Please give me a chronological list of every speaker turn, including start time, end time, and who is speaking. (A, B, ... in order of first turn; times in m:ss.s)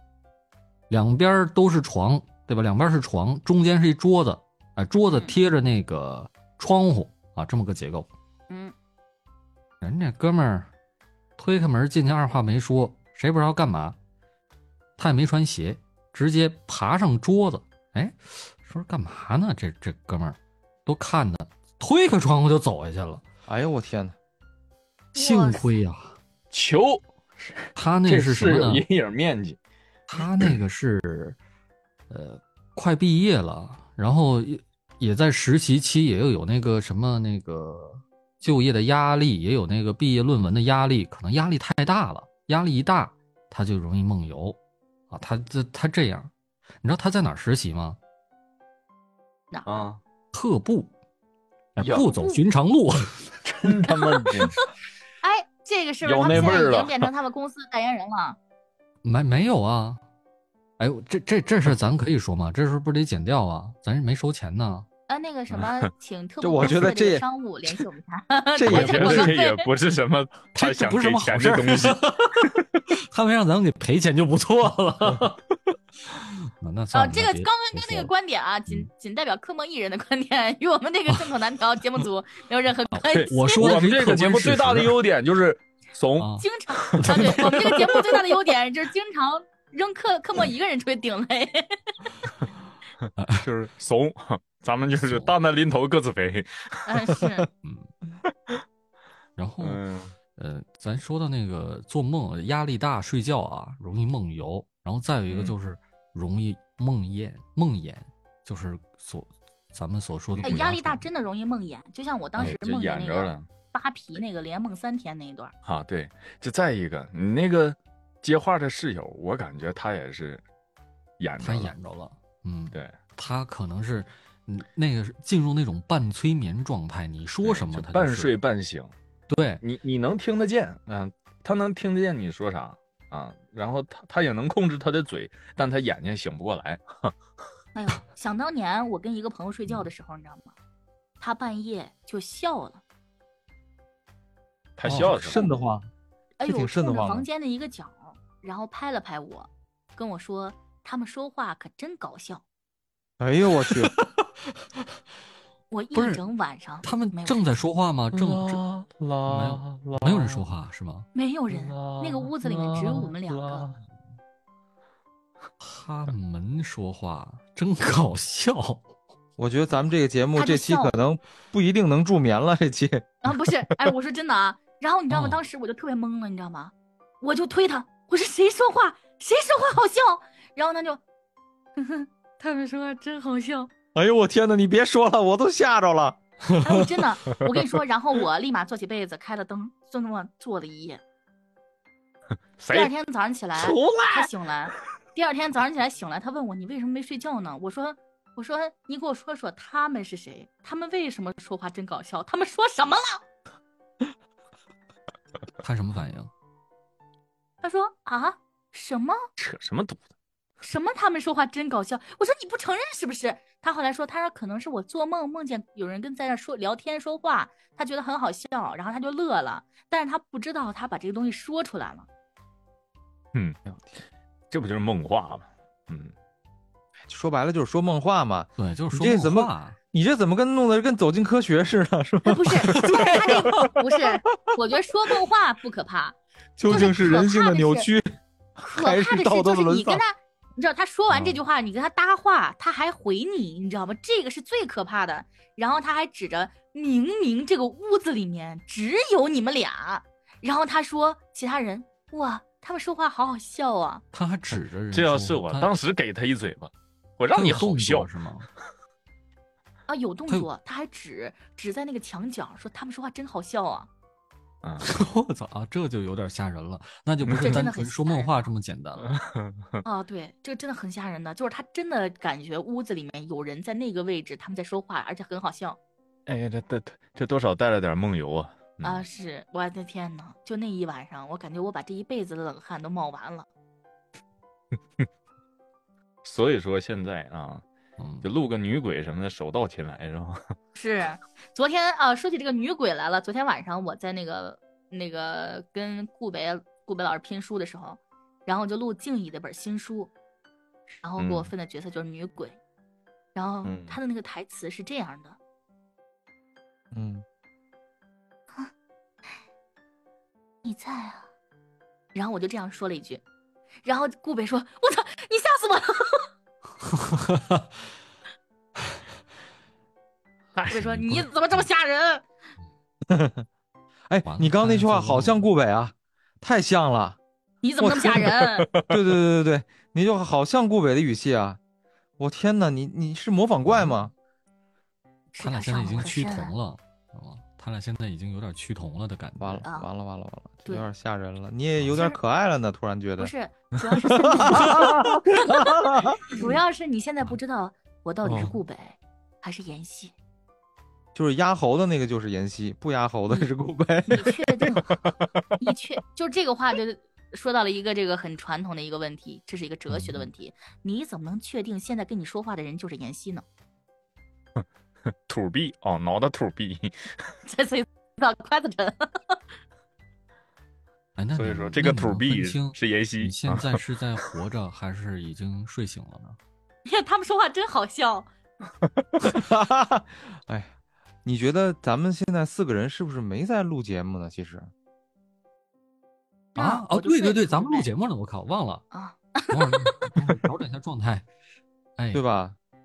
0:00.9-0:08.1 A
0:09.8-0:10.7 A
0:11.4-0:14.0 A
0:15.0-0:23.2 A
0:23.5-0:24.2 B
0:25.2-0:25.7 C
0:25.2-0:26.2 A
0:26.5-0:29.6 D
0:27.8-0:28.8 A
0:30.1-0:31.4 A
0:30.2-0:30.6 D
0:32.1-0:44.6 A
0:45.1-0:46.3 A
0:46.8-0:48.0 A
0:49.7-0:50.0 D
0:50.3-0:50.9 A
0:51.8-0:53.2 A
0:51.8-0:52.1 D
0:52.0-0:52.4 C
0:53.4-0:54.6 D
0:53.9-0:54.7 C
0:55.2-0:58.4 C
0:56.0-0:57.1 D
0:56.3-0:56.6 A
0:59.0-1:00.0 A
1:00.8-1:04.9 A
1:05.1-1:09.7 C
1:06.4-1:07.2 B
1:08.6-1:09.3 B
1:08.6-1:12.0 D
1:10.6-1:15.4 A
1:16.1-1:18.1 A
1:16.9-1:23.7 C
1:22.9-1:24.9 A
1:23.1-1:27.6 D
1:26.2-1:28.2 A
1:26.4-1:31.8 C
1:33.2-1:33.5 A
1:33.4-1:36.8 D
1:35.0-1:35.3 A
1:36.9-1:37.5 C
1:37.6-1:37.9 A
1:39.4-1:39.8 A
1:39.6-1:40.1 D
1:40.4-1:51.0 A
1:45.3-1:45.6 D
1:50.4-1:55.5 C
1:52.4-1:53.5 D
1:55.7-2:00.4 D
2:01.2-2:01.7 D
2:01.4-2:08.3 A
2:07.4-2:08.9 D
2:09.3-2:09.6 A
2:09.6-2:17.1 D
2:17.8-2:20.5 C
2:21.2-2:22.8 C
2:24.8-2:25.5 D
2:24.8-2:25.5 A
2:25.2-2:25.9 B
2:26.4-2:32.4 C
2:26.4-2:27.3 B
2:33.2-2:33.9 B
2:33.6-2:34.3 A
2:35.7-2:37.4 C
2:36.0-2:36.2 A
2:36.8-2:38.6 A
2:38.1-2:40.4 D
2:39.3-2:41.1 A
2:41.1-2:43.7 C
2:41.5-2:43.8 D
2:45.6-2:48.8 A
2:49.4-2:53.1 B
2:50.4-2:50.9 C
2:53.2-3:01.0 C
2:55.1-2:55.4 A
3:01.8-3:03.7 C
3:04.0-3:06.2 B
3:06.6-3:11.0 C
3:12.6-3:12.9 D
3:12.7-3:23.2 C
3:13.6-3:14.3 D
3:25.6-3:26.3 A
3:27.6-3:29.2 C
3:29.4-3:30.0 D
3:30.6-3:42.1 C
3:44.5-3:46.1 D
3:47.1-3:53.7 B
3:48.6-3:49.8 A
3:52.2-3:57.9 C
3:56.6-4:00.0 B
3:58.6-4:14.0 C
4:14.1-4:15.7 A
4:14.5-4:18.1 D
4:17.3-4:18.5 A
4:19.9-4:23.9 C
4:24.6-4:24.9 D
4:24.8-4:29.2 A
4:27.2-4:27.7 D
4:27.4-4:28.3 C
4:29.0-4:29.8 D
4:29.8-4:35.8 C
4:36.3-4:39.0 D
4:38.8-4:43.5 C
4:46.2-4:47.6 D
4:48.0-4:48.3 A
4:48.2-4:50.4 D
4:50.8-5:00.1 C
5:01.0-5:02.6 C
5:01.2-5:01.5 D
5:03.4-5:05.4 C
5:03.6-5:04.0 D
5:06.9-5:07.2 B
5:10.6-5:11.3 C
5:12.1-5:13.2 C
5:13.8-5:16.3 C
5:17.0-5:17.6 A
5:20.7-5:22.2 C
5:20.7-5:21.3 A
5:23.1-5:23.5 B
5:24.1-5:27.2 B
5:24.2-5:25.4 A
5:27.6-5:28.7 C
5:28.2-5:29.0 D
5:28.9-5:31.6 B
5:32.2-5:34.1 B
5:33.7-5:33.9 A
5:35.3-5:36.5 C
5:35.4-5:39.6 A
5:39.4-5:43.3 B
5:39.6-5:39.9 C
5:43.2-5:50.1 C
5:44.0-5:46.3 B
5:51.2-5:54.7 B
5:54.1-5:55.0 C
5:55.6-6:03.4 C
5:59.9-6:00.2 A
6:05.3-6:07.1 D
6:07.5-6:09.4 C
6:11.2-6:16.4 A
6:11.4-6:14.2 D
6:16.9-6:18.3 C
6:19.2-6:20.7 B
6:21.2-6:24.7 B
6:26.6-6:27.9 C
6:26.6-6:28.8 A
6:28.9-6:30.2 C
6:29.5-6:31.3 A
6:32.0-6:32.2 A
6:32.1-6:32.6 B